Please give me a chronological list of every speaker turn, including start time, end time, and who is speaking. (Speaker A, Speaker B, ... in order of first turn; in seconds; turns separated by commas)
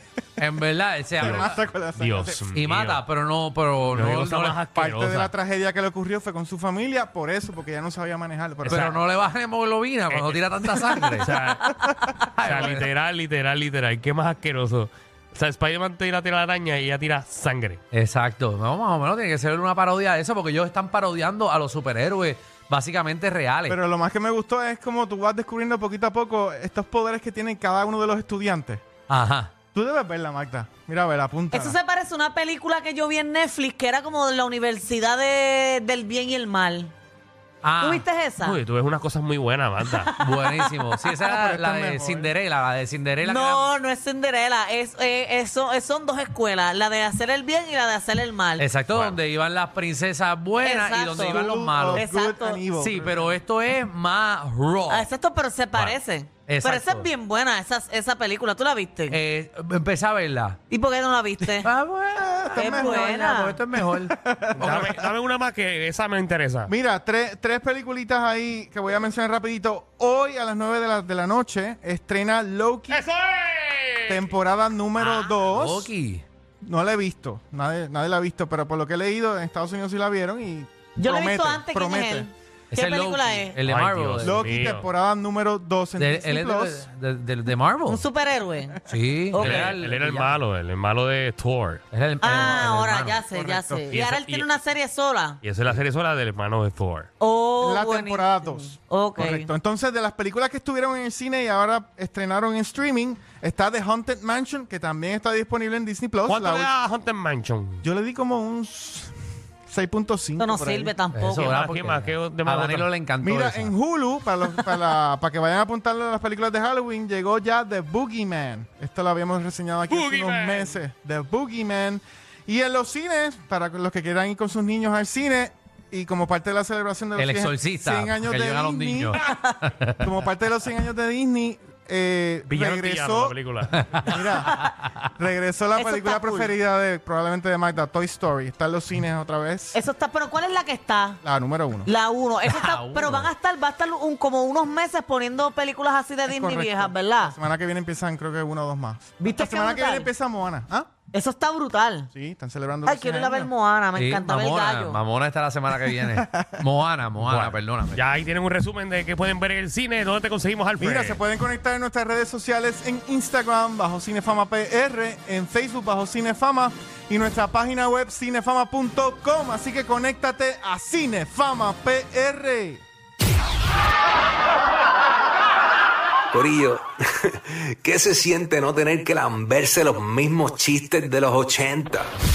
Speaker A: 0.4-1.5, Speaker B: 1.2-2.4, Speaker C: 1.2-3.0, Speaker A: 2.5-4.6, Speaker C: 3.9-5.3, Speaker B: 4.7-8.9, Speaker C: 8.6-9.0, Speaker A: 8.7-11.3, Speaker C: 10.1-17.8, Speaker B: 11.7-11.9, Speaker A: 12.1-12.8, Speaker A: 17.9-23.8, Speaker B: 23.7-28.8, Speaker A: 29.1-29.5, Speaker B: 29.7-31.8, Speaker D: 31.5-36.9, Speaker A: 37.6-38.0, Speaker D: 37.8-38.6, Speaker C: 38.4-40.1, Speaker D: 39.8-40.8, Speaker A: 40.2-43.7, Speaker B: 41.2-42.3, Speaker D: 43.2-48.6, Speaker A: 48.6-52.1, Speaker C: 48.9-49.2, Speaker D: 50.6-52.6, Speaker B: 51.3-53.4, Speaker A: 52.7-55.1, Speaker D: 54.9-59.1, Speaker C: 55.7-56.0, Speaker A: 56.5-57.1, Speaker A: 59.1-60.6, Speaker D: 60.7-61.7, Speaker A: 61.6-64.9, Speaker B: 62.2-63.2, Speaker D: 62.5-63.6, Speaker B: 63.9-65.0, Speaker C: 64.5-66.7, Speaker B: 66.7-73.0, Speaker C: 72.9-74.3, Speaker B: 74.1-75.9, Speaker A: 75.0-76.2, Speaker B: 76.6-82.3, Speaker D: 81.0-83.6, Speaker A: 82.7-84.6, Speaker C: 83.6-84.9, Speaker B: 84.2-86.9, Speaker A: 86.0-88.0, Speaker D: 87.9-89.8, Speaker A: 88.8-90.3, Speaker C: 89.3-91.8, Speaker A: 91.9-93.2, Speaker D: 92.2-95.4, Speaker B: 93.3-93.8, Speaker C: 93.9-94.6, Speaker C: 95.4-97.1, Speaker D: 97.2-99.5, Speaker B: 97.6-106.7, Speaker C: 106.3-107.8, Speaker B: 107.8-109.1, Speaker B: 109.7-110.9, Speaker D: 110.4-111.5, Speaker A: 111.1-113.7, Speaker C: 111.3-112.9, Speaker B: 113.2-129.2, Speaker C: 119.9-120.8, Speaker A: 127.2-129.2, Speaker D: 129.2-129.5, Speaker B: 130.0-133.3, Speaker C: 132.5-134.3, Speaker A: 133.8-134.6, Speaker B: 134.1-139.8, Speaker D: 135.8-136.5, Speaker D: 139.7-141.2, Speaker B: 141.2-141.9, Speaker D: 141.8-147.3, Speaker A: 142.4-143.3, Speaker B: 146.3-150.9, Speaker D: 149.2-150.1, Speaker D: 151.1-152.1, Speaker B: 152.1-153.5, Speaker D: 152.9-155.0, Speaker A: 153.9-158.0, Speaker B: 155.9-156.6, Speaker C: 157.2-161.2, Speaker B: 160.8-172.8, Speaker E: 176.3-176.8, Speaker E: 177.4-182.1